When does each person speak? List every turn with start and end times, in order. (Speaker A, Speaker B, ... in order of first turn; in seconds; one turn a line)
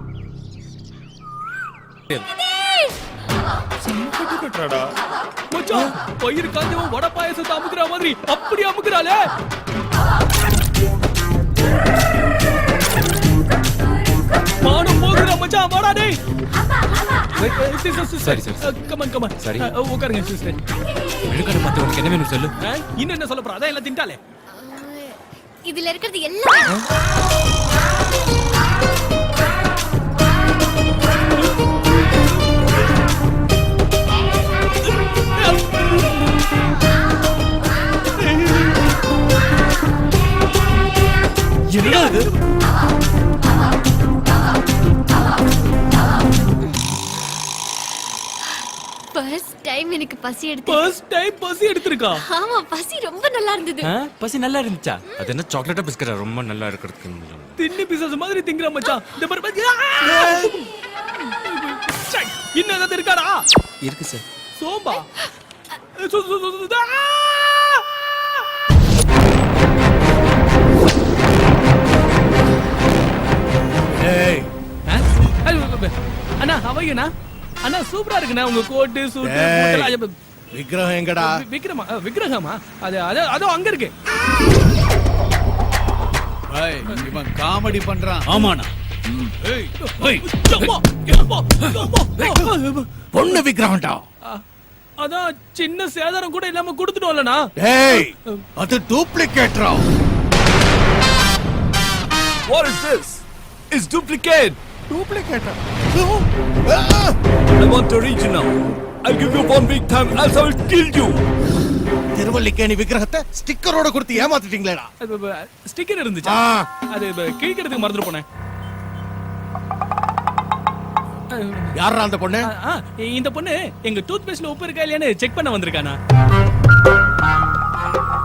Speaker A: 5.5-9.2
Speaker A: 14.6-16.1
Speaker A: 17.3-20.6
Speaker B: 18.2-18.7
Speaker B: 19.4-19.7
Speaker B: 21.3-22.5
Speaker A: 22.6-24.2
Speaker C: 24.5-26.8
Speaker A: 35.3-36.3
Speaker A: 41.8-42.3
Speaker C: 49.1-50.8
Speaker A: 50.6-52.2
Speaker C: 52.3-53.9
Speaker B: 53.8-57.5
Speaker A: 57.6-60.7
Speaker A: 61.4-63.4
Speaker B: 63.8-64.2
Speaker A: 64.6-65.2
Speaker A: 66.0-67.8
Speaker D: 73.9-74.5
Speaker A: 74.8-77.1
Speaker A: 77.6-80.1
Speaker D: 79.2-79.9
Speaker D: 80.5-81.3
Speaker A: 81.2-83.9
Speaker E: 86.5-88.6
Speaker D: 88.3-88.5
Speaker D: 89.1-89.4
Speaker A: 89.8-93.4
Speaker D: 90.0-90.7
Speaker D: 91.7-92.5
Speaker D: 93.1-94.0
Speaker A: 95.0-98.4
Speaker D: 97.6-99.8
Speaker F: 102.5-104.6
Speaker D: 104.9-107.2
Speaker F: 107.6-111.2
Speaker D: 112.1-114.9
Speaker A: 115.0-118.2
Speaker D: 116.2-116.7
Speaker A: 121.3-121.7
Speaker D: 121.7-122.5
Speaker A: 122.4-126.0